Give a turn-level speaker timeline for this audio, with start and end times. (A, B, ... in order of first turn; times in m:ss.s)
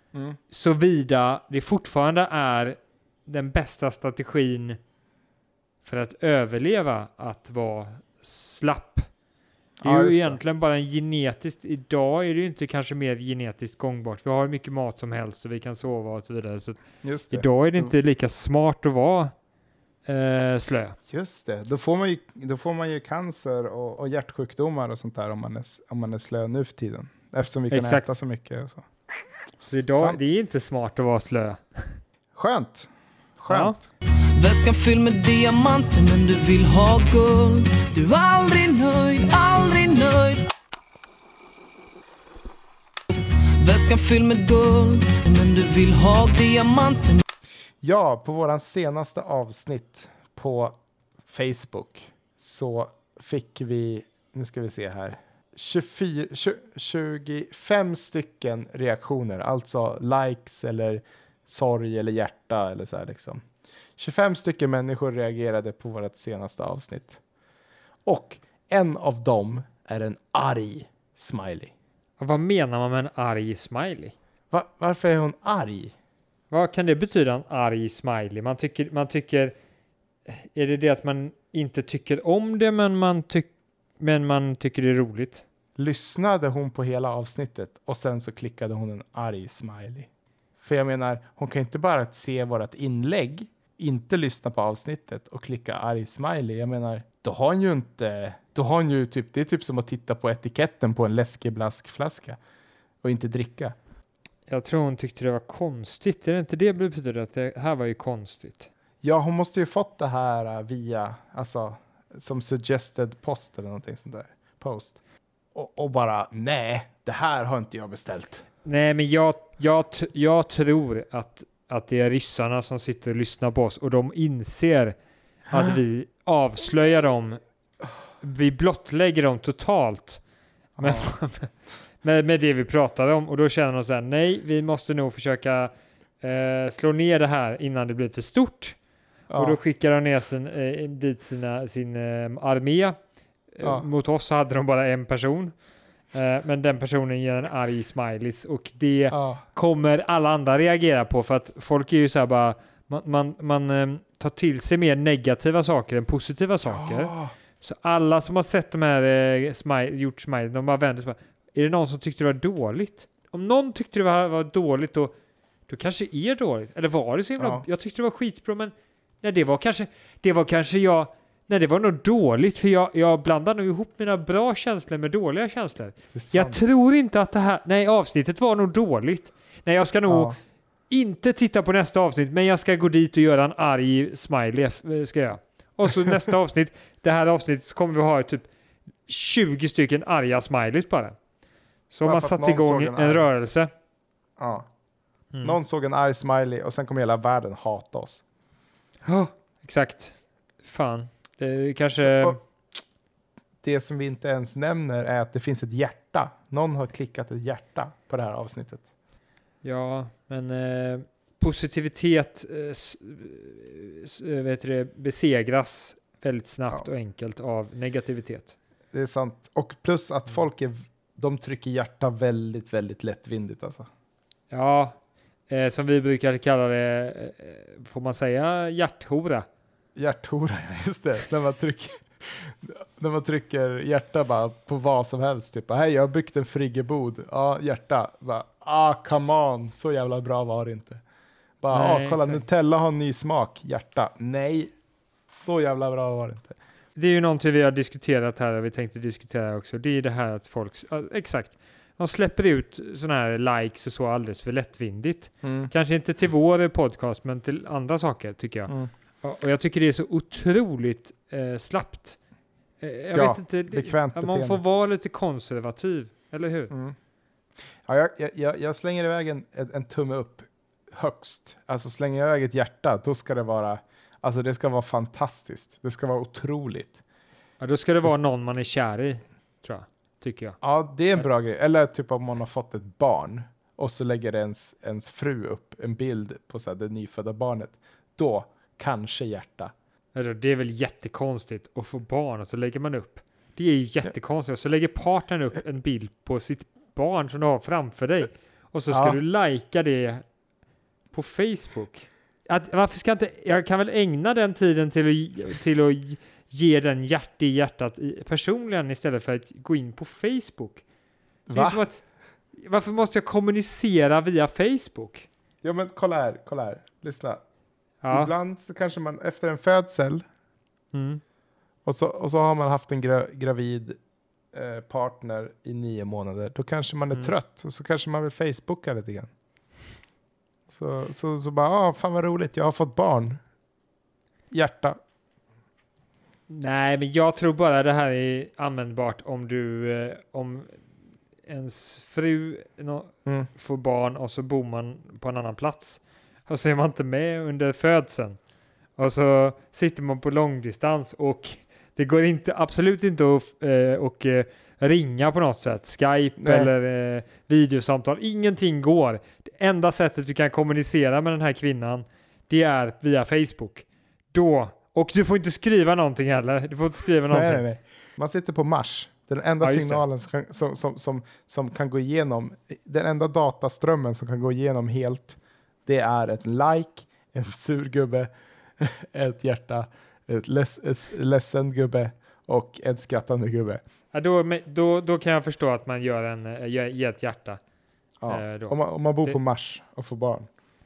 0:00.5-0:04.8 A
0:05.8-0:09.1 A
0:09.8-0:10.4 B
0:09.8-0:19.3 A
0:17.0-0:17.9 B
0:20.0-0:21.0 A
0:21.1-0:28.8 B
0:27.7-0:28.2 A
0:29.6-0:32.0 A
0:29.9-0:30.2 B
0:32.3-0:33.8 B
0:33.5-0:33.8 A
0:34.3-0:40.4 C
0:43.6-0:47.2 C
0:47.8-1:03.4 B
1:04.0-1:07.2 B
1:08.0-1:11.7 B
1:12.2-1:14.1 A
1:14.5-1:15.9 B
1:16.5-1:19.5 A
1:20.2-1:25.4 A
1:25.8-1:30.1 B
1:30.6-1:42.4 B
1:43.0-1:43.8 B
1:44.5-1:48.7 A
1:49.0-1:55.0 B
1:55.5-1:58.4 B
1:58.6-2:05.0 A
2:05.5-2:07.4 A
2:08.2-2:10.2 A
2:10.8-2:11.1 B
2:10.8-2:18.8 A
2:19.3-2:19.6 B
2:19.3-2:23.0 A
2:23.5-2:25.6 A
2:26.1-2:45.1 A
2:29.1-2:29.4 B
2:36.6-2:37.3 B
2:45.7-3:00.4 A
2:47.4-2:47.6 B
2:56.1-2:56.6 B
3:00.1-3:00.4 B
3:00.9-3:08.5 A
3:09.0-3:11.2 A
3:11.9-3:13.7 A
3:12.0-3:13.3 B
3:14.4-3:14.7 B
3:15.4-3:18.2 B
3:19.0-3:22.4 A
3:22.0-3:22.4 B
3:23.6-3:28.8 B
3:29.6-3:38.5 A
3:38.9-3:43.9 B
3:44.5-3:49.4 A
3:50.0-4:01.0 B
4:01.6-4:04.7 B
4:01.7-4:02.4 A
4:05.3-4:06.6 B
4:07.0-4:22.2 A
4:15.4-4:15.7 B
4:22.8-4:26.7 A
4:23.1-4:24.6 B
4:27.8-4:37.0 B
4:37.6-4:40.6 A
4:40.6-4:49.7 B
4:50.1-5:00.2 A
4:58.9-4:59.2 B
5:01.1-5:10.8 A
5:11.5-5:11.8 B
5:11.5-5:12.0 A
5:12.6-5:15.3 A
5:15.6-5:17.4 B
5:18.0-5:18.3 A
5:18.1-5:20.2 B
5:20.9-5:21.2 A
5:21.8-5:24.0 B
5:24.5-5:29.3 B
5:30.7-5:33.4 B
5:34.5-5:35.0 B
5:36.5-5:40.8 A
5:41.4-5:48.4 A
5:49.0-6:07.6 A
5:56.4-5:56.7 B
6:07.3-6:23.8 B
6:09.6-6:10.0 A
6:24.1-6:27.6 A
6:28.2-6:30.5 B
6:28.3-6:29.4 A